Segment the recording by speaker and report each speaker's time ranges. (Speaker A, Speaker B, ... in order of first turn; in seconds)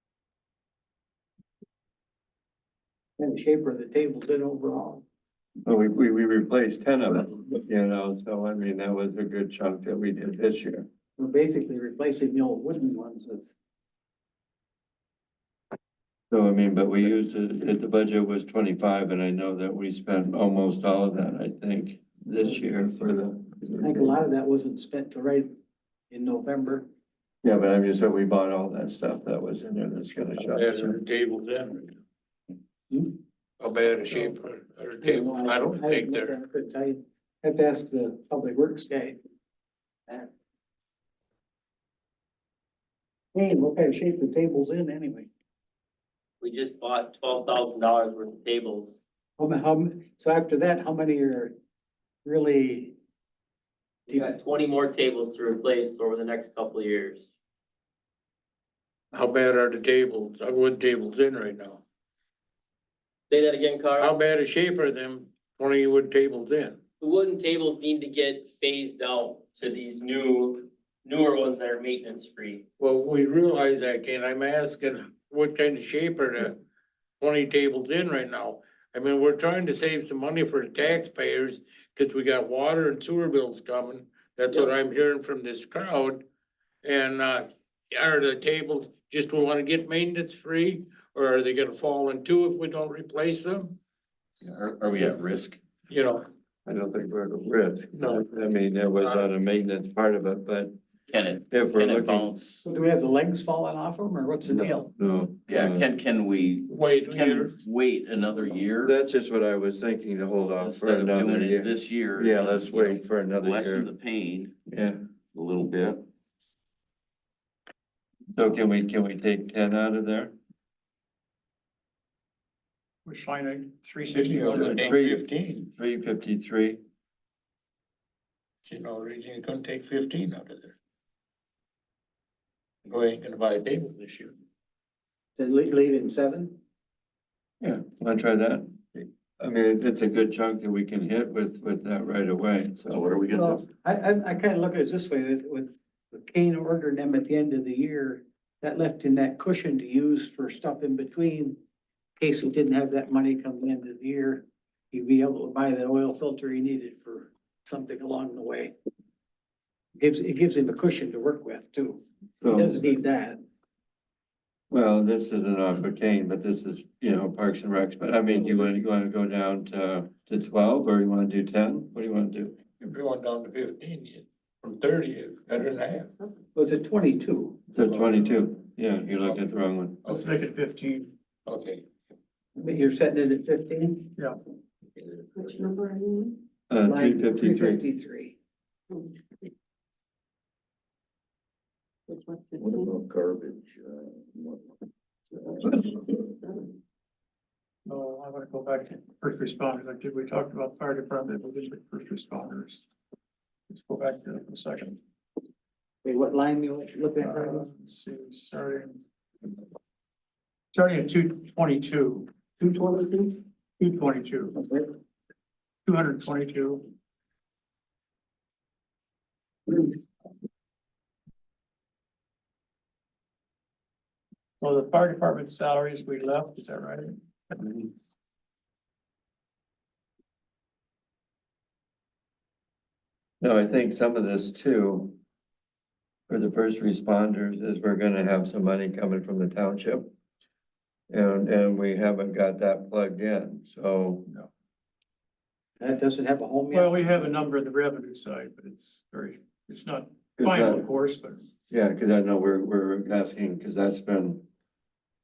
Speaker A: 3.2-5.0, 11.2-13.5, 23.8-25.5, 26.1-26.9, 34.1-34.4, 35.0-39.2, 43.4-45.3, 49.4-51.5, 52.2-53.0, 54.1-54.4, 102.7-104.9, 135.4-136.6, 143.3-151.6, 152.2-158.7, 160.0-162.0, 162.5-163.4, 176.6-177.6, 182.6-184.2, 186.8-188.4, 206.0-207.7, 212.6-213.3, 245.8-247.2
Speaker B: 5.7-10.9, 16.3-24.2, 27.4-31.0, 96.7-100.8, 101.5-102.3, 104.5-105.9, 108.8-113.9, 114.7-115.0, 118.3-120.3, 124.4-126.8, 137.6-143.6, 162.4-162.8, 164.7-172.6, 177.7-180.0, 186.7-187.8, 233.4-235.2, 236.3-240.1, 241.1-244.3, 250.4-250.9, 251.7-254.4
Speaker C: 30.5-32.0, 33.6-36.3, 59.1-61.8, 64.0-66.8, 72.8-76.6, 77.2-86.2, 86.8-93.8, 95.9-96.3, 97.9-98.2, 99.0-99.3, 106.7-107.5, 124.1-125.7, 128.7-130.8, 132.8-134.3, 172.8-176.1, 177.9-178.2, 181.5-181.8
Speaker D: 46.4-49.0, 54.1-57.3, 63.3-64.2, 67.0-72.6
Speaker E: 94.4-95.6, 101.1-102.6, 105.5-108.9, 110.6-114.6, 115.3-116.0, 142.9-143.6, 192.6-194.6, 195.4-195.7
Speaker F: 123.1-124.9, 180.1-181.1, 197.9-202.9, 203.7-205.0, 207.2-209.0, 210.7-212.3, 213.8-214.7, 215.9-216.9, 224.6-227.1, 246.7-251.5
Speaker G: 185.3-186.4, 192.1-192.9, 195.9-196.4